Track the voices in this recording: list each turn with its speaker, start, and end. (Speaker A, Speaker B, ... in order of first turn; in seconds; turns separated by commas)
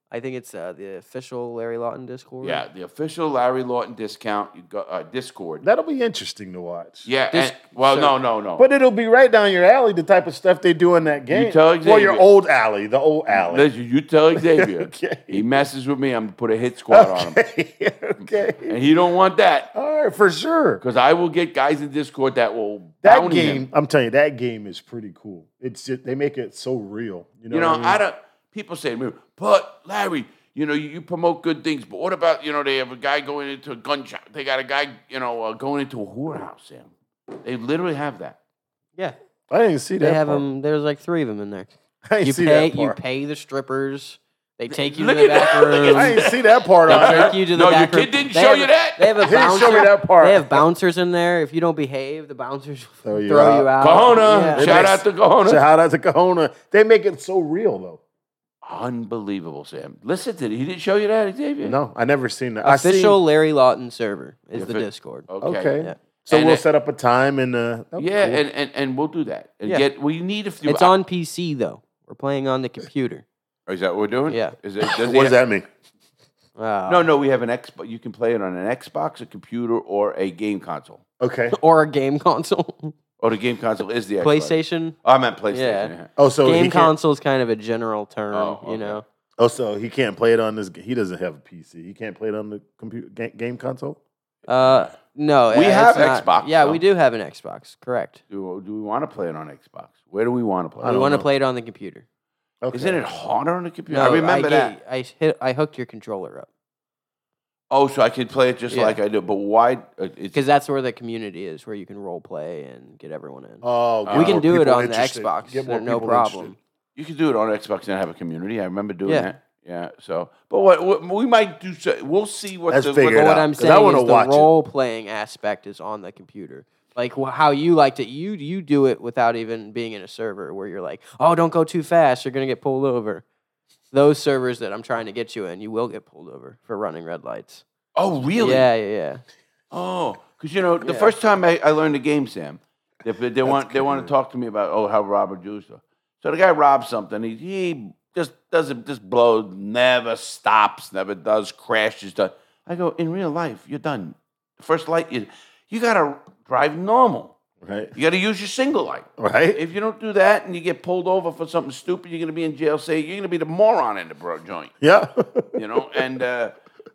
Speaker A: 0.1-2.6, Speaker B: 2.4-5.6, Speaker C: 5.6-7.1, Speaker B: 7.0-8.6, Speaker A: 7.3-8.1, Speaker C: 8.6-13.7, Speaker B: 11.3-12.2, Speaker B: 13.3-17.4, Speaker C: 14.3-15.4, Speaker C: 16.9-18.8, Speaker B: 18.6-19.7, Speaker C: 19.7-20.8, Speaker B: 20.8-23.6, Speaker C: 23.0-28.0, Speaker B: 27.5-38.4, Speaker C: 39.5-40.4, Speaker A: 40.0-46.3, Speaker C: 42.1-43.0, Speaker B: 44.7-46.4, Speaker C: 45.9-47.3, Speaker A: 46.9-54.9, Speaker B: 46.9-49.3, Speaker C: 49.2-50.6, Speaker C: 53.0-58.0, Speaker B: 53.8-55.6, Speaker B: 58.6-61.8, Speaker C: 61.6-63.2, Speaker A: 62.6-65.3, Speaker B: 64.5-65.8, Speaker C: 65.4-68.4, Speaker B: 66.3-66.6, Speaker B: 68.0-70.9, Speaker A: 70.6-73.2, Speaker B: 73.7-75.3, Speaker A: 74.3-74.5, Speaker C: 74.8-75.7, Speaker A: 76.6-77.1, Speaker B: 76.9-81.0, Speaker C: 81.2-81.6, Speaker A: 81.5-82.9, Speaker B: 83.2-86.1, Speaker A: 84.2-85.0, Speaker A: 85.5-89.0, Speaker C: 86.2-86.9, Speaker B: 88.3-89.0, Speaker C: 89.4-94.0, Speaker A: 94.5-98.2, Speaker B: 95.5-96.8, Speaker B: 98.3-101.0, Speaker C: 100.8-101.3, Speaker A: 100.8-102.0, Speaker C: 102.6-103.0, Speaker B: 102.7-104.7, Speaker A: 103.9-106.5, Speaker B: 107.7-110.4, Speaker A: 108.7-109.0, Speaker A: 110.3-116.6, Speaker C: 113.6-116.5, Speaker B: 114.0-114.4, Speaker B: 117.0-123.3, Speaker C: 122.7-124.5, Speaker A: 123.0-133.2, Speaker A: 133.9-137.6, Speaker B: 137.9-138.7, Speaker A: 138.3-139.2, Speaker B: 139.7-157.3, Speaker A: 140.8-141.1, Speaker C: 143.4-144.1, Speaker C: 157.6-157.9, Speaker B: 157.9-164.7, Speaker C: 159.2-159.6, Speaker C: 164.8-166.1, Speaker B: 165.5-166.5